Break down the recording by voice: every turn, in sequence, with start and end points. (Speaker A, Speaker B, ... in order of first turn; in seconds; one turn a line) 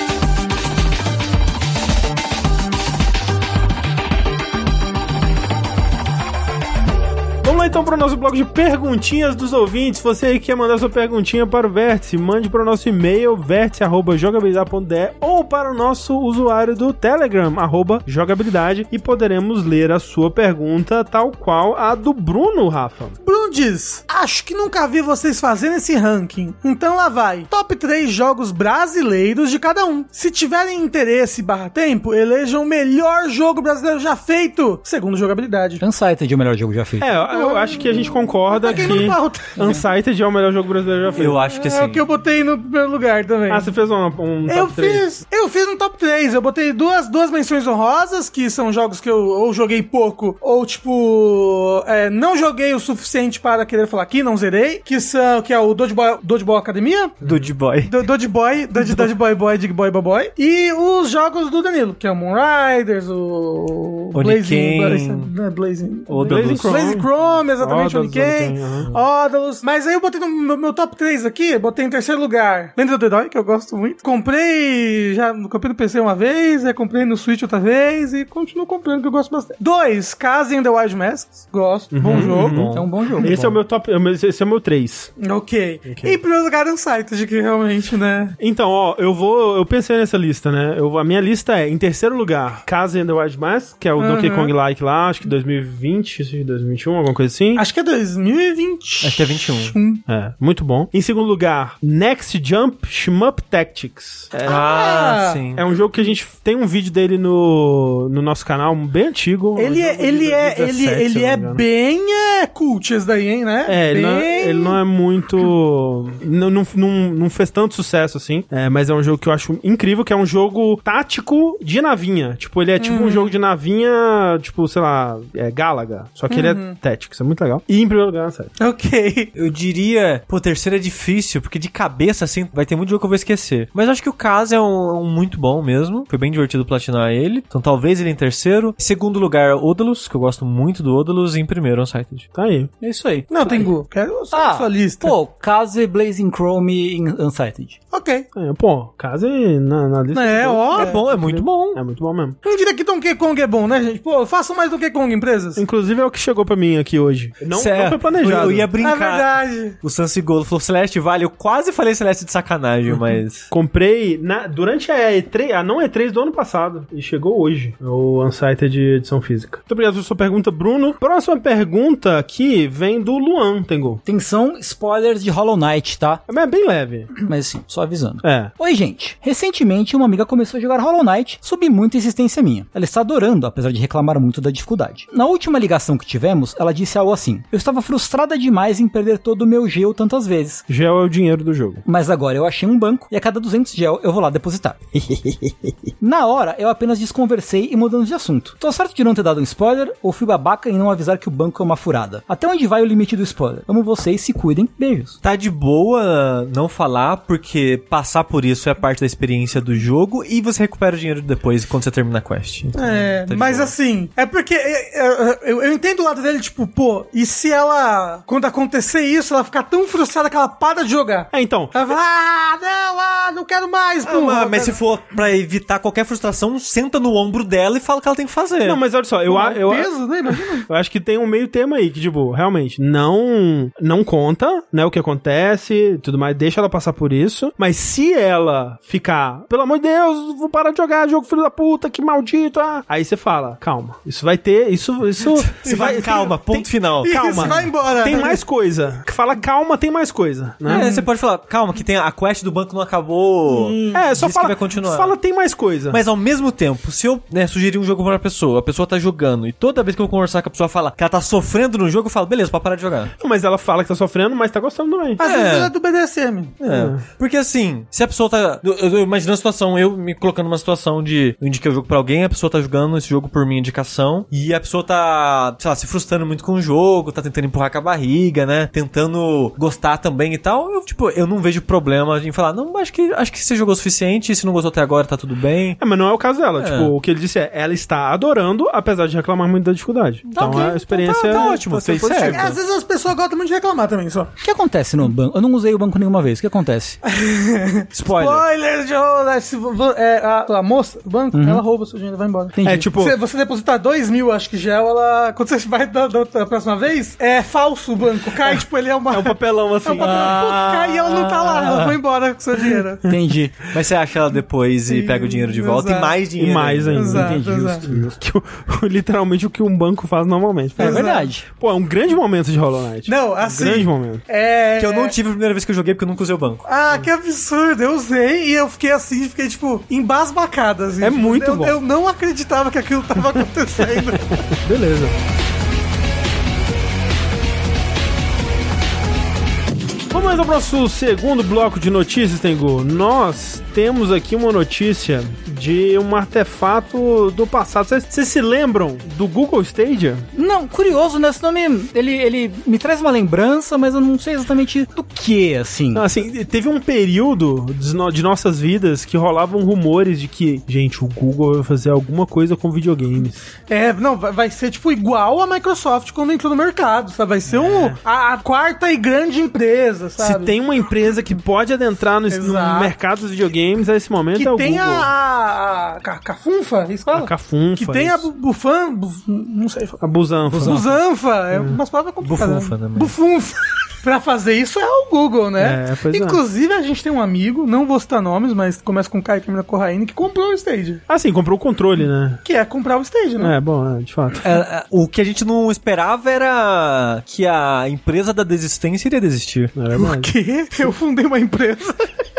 Speaker A: 7.4-23.2
Speaker B: 23.2-35.8
Speaker C: 35.8-37.1
Speaker A: 37.0-41.4
Speaker B: 37.3-39.8
Speaker D: 41.2-42.0
Speaker B: 41.5-43.7
Speaker A: 43.5-45.1
Speaker B: 44.5-57.2
Speaker D: 57.2-57.9
Speaker A: 57.2-57.5
Speaker B: 57.8-83.3
Speaker D: 64.2-65.3
Speaker D: 66.1-67.1
Speaker A: 66.2-67.1
Speaker A: 67.6-68.9
Speaker A: 81.9-85.1
Speaker C: 82.1-83.6
Speaker B: 85.2-88.4
Speaker A: 85.9-86.2
Speaker A: 88.4-97.6
Speaker B: 94.0-94.5
Speaker B: 97.6-100.0
Speaker D: 99.0-99.8
Speaker A: 100.1-104.6
Speaker D: 104.5-105.6
Speaker B: 104.5-105.4
Speaker A: 105.5-111.6
Speaker B: 109.6-114.8
Speaker A: 113.7-128.5
Speaker B: 122.8-123.3
Speaker B: 126.3-126.8
Speaker B: 128.6-129.3
Speaker D: 129.3-142.3
Speaker A: 142.3-142.7
Speaker C: 142.8-143.7
Speaker B: 143.3-145.2
Speaker C: 144.3-147.8
Speaker B: 147.9-148.3
Speaker A: 148.3-152.4
Speaker B: 150.1-151.0
Speaker D: 150.7-151.8
Speaker B: 152.4-155.6
Speaker A: 155.6-158.7
Speaker D: 157.5-163.5
Speaker B: 158.8-159.8
Speaker A: 163.5-174.0
Speaker C: 174.1-176.2
Speaker A: 176.3-177.2
Speaker C: 177.2-190.6
Speaker A: 178.2-178.5
Speaker A: 190.7-191.8
Speaker C: 191.8-205.2
Speaker D: 205.2-213.7
Speaker B: 212.8-224.8
Speaker A: 221.3-221.8
Speaker D: 224.1-228.8
Speaker A: 228.6-230.1
Speaker B: 229.3-230.7
Speaker A: 230.6-250.9
Speaker D: 245.4-247.7
Speaker B: 247.0-248.4
Speaker D: 250.7-255.2
Speaker B: 250.7-251.1
Speaker A: 253.9-256.0
Speaker D: 255.9-263.1
Speaker A: 263.2-265.2
Speaker D: 265.2-265.7
Speaker B: 265.2-266.6
Speaker D: 266.6-285.8
Speaker A: 266.7-267.0
Speaker A: 285.8-292.6
Speaker D: 286.6-286.9
Speaker D: 290.3-292.6
Speaker B: 290.4-291.6
Speaker B: 292.2-294.3
Speaker C: 294.4-297.0
Speaker B: 297.1-313.1
Speaker D: 297.9-298.4
Speaker C: 301.3-301.6
Speaker C: 302.6-302.9
Speaker A: 302.6-303.2
Speaker A: 309.1-310.5
Speaker C: 310.0-310.6
Speaker C: 311.5-312.0
Speaker C: 313.1-313.6
Speaker D: 313.7-317.1
Speaker B: 314.9-316.2
Speaker A: 316.4-324.2
Speaker B: 316.9-317.9
Speaker C: 317.1-318.1
Speaker B: 320.8-321.3
Speaker C: 320.8-321.5
Speaker B: 323.1-325.1
Speaker D: 324.8-326.7
Speaker B: 326.7-334.3
Speaker A: 331.0-331.8
Speaker A: 334.1-335.2
Speaker A: 340.1-350.3
Speaker C: 350.3-356.1
Speaker A: 355.9-363.4
Speaker B: 363.7-370.6
Speaker A: 367.5-368.0
Speaker A: 370.2-375.1
Speaker B: 372.3-372.9
Speaker B: 374.3-380.0
Speaker A: 377.1-378.3
Speaker A: 380.0-380.8
Speaker C: 380.5-380.9
Speaker B: 380.6-391.0
Speaker D: 382.2-383.1
Speaker A: 385.6-386.4
Speaker A: 391.1-392.4
Speaker B: 392.4-393.5
Speaker A: 393.4-394.4
Speaker D: 394.4-399.8
Speaker A: 399.8-400.3
Speaker B: 399.9-402.1